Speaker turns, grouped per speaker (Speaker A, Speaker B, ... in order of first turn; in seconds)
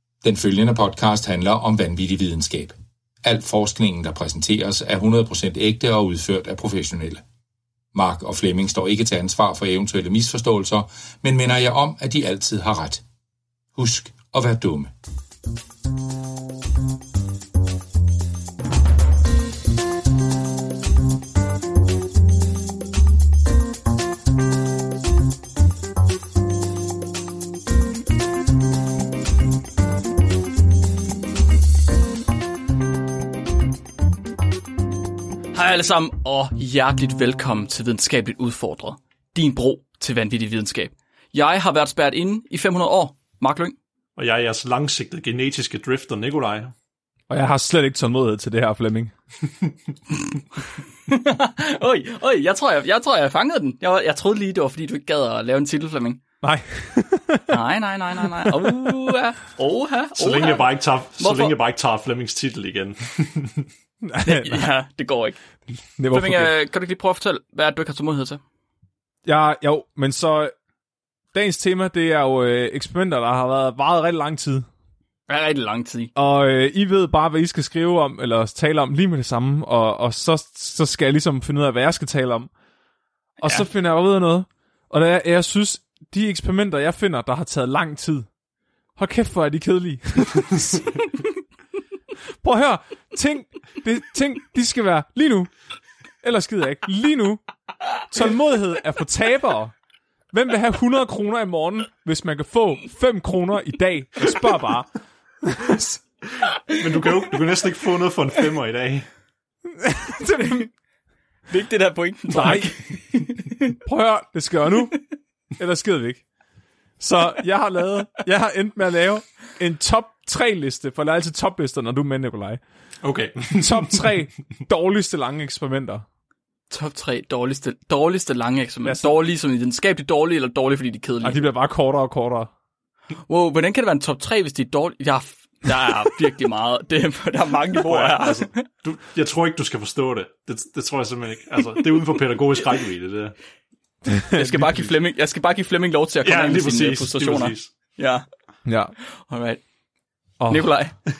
Speaker A: 0.2-7.2, 7.9-13.0, 13.7-14.9
Speaker B: 35.5-43.8, 51.1-56.2, 57.5-61.6, 64.2-65.4, 66.1-68.4, 75.3-76.1, 83.4-83.7, 111.5-113.5, 126.7-131.4, 133.3-138.6, 144.3-148.2, 149.3-149.6, 150.5-150.9
Speaker C: 44.2-46.7, 60.1-63.6, 106.7-109.1, 123.0-124.1, 137.8-143.3, 146.2-147.7
Speaker D: 47.3-49.1, 56.4-57.6, 58.4-59.1, 64.0-64.7, 66.0-66.5, 69.2-70.5, 71.3-74.7, 76.1-82.5, 83.4-88.3, 89.0-90.8, 92.4-95.5, 96.2-97.4, 98.0-99.7, 100.3-104.9, 105.4-106.0, 109.7-110.7, 112.3-112.8, 113.8-115.0, 115.6-116.2, 117.0-122.6, 123.5-126.0, 128.8-129.1, 131.2-132.5, 144.1-144.9, 148.7-148.9, 150.4-150.7